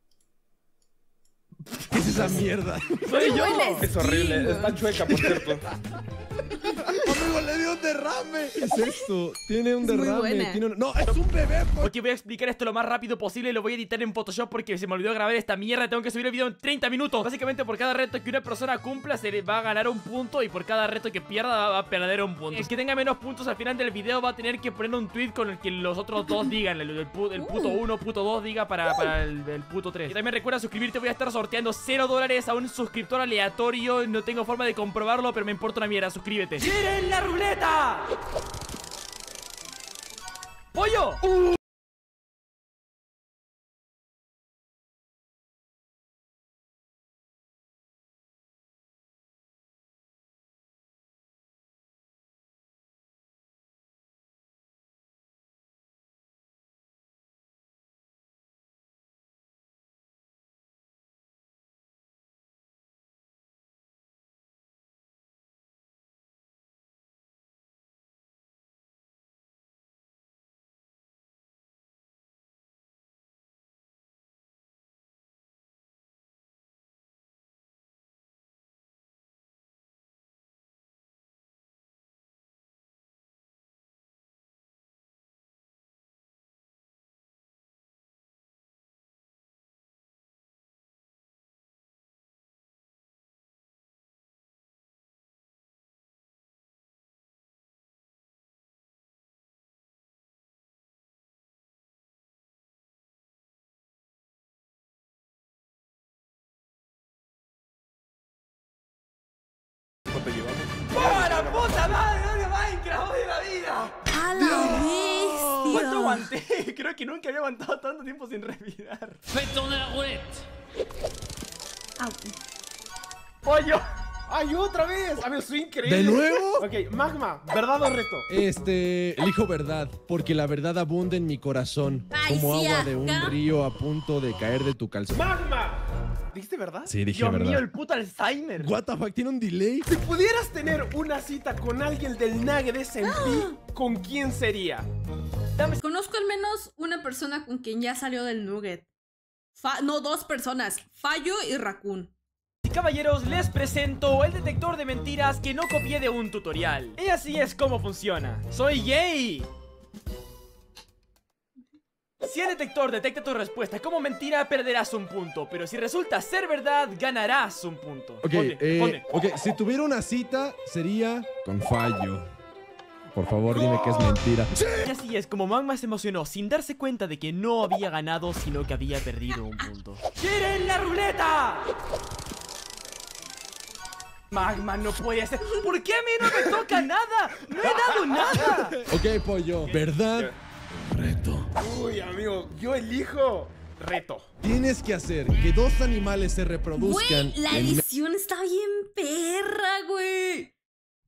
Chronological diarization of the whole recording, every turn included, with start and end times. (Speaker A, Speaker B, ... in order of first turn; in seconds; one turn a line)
Speaker A: 1.9-3.2
Speaker B: 2.2-2.5
Speaker C: 3.0-3.9
Speaker D: 3.1-4.9
Speaker B: 3.8-5.7
Speaker A: 5.1-5.7
Speaker D: 6.5-6.9
Speaker A: 6.6-11.9
Speaker D: 8.8-9.0
Speaker D: 9.8-10.6
Speaker C: 11.8-38.1
Speaker D: 27.3-27.8
Speaker C: 40.7-41.2
Speaker B: 110.1-112.0
Speaker C: 110.9-114.0
Speaker D: 114.1-116.3
Speaker A: 114.3-115.8
Speaker C: 115.6-119.2
Speaker D: 122.0-122.3
Speaker B: 123.4-128.3
Speaker A: 125.8-126.7
Speaker A: 128.3-135.2
Speaker D: 132.1-133.3
Speaker B: 135.1-135.8
Speaker B: 136.3-136.9
Speaker A: 136.8-137.7
Speaker C: 137.1-138.7
Speaker A: 138.6-139.9
Speaker B: 139.9-144.8
Speaker D: 143.0-143.5
Speaker D: 145.8-148.9
Speaker D: 149.5-152.1
Speaker C: 152.6-159.5
Speaker C: 162.2-169.0
Speaker A: 168.2-172.3
Speaker A: 173.1-174.9
Speaker B: 173.5-174.2
Speaker C: 174.8-181.7
Speaker C: 184.3-188.8
Speaker B: 187.7-188.7
Speaker A: 188.3-191.5
Speaker B: 189.7-190.3
Speaker B: 191.6-194.3
Speaker A: 194.4-197.8
Speaker D: 196.8-200.5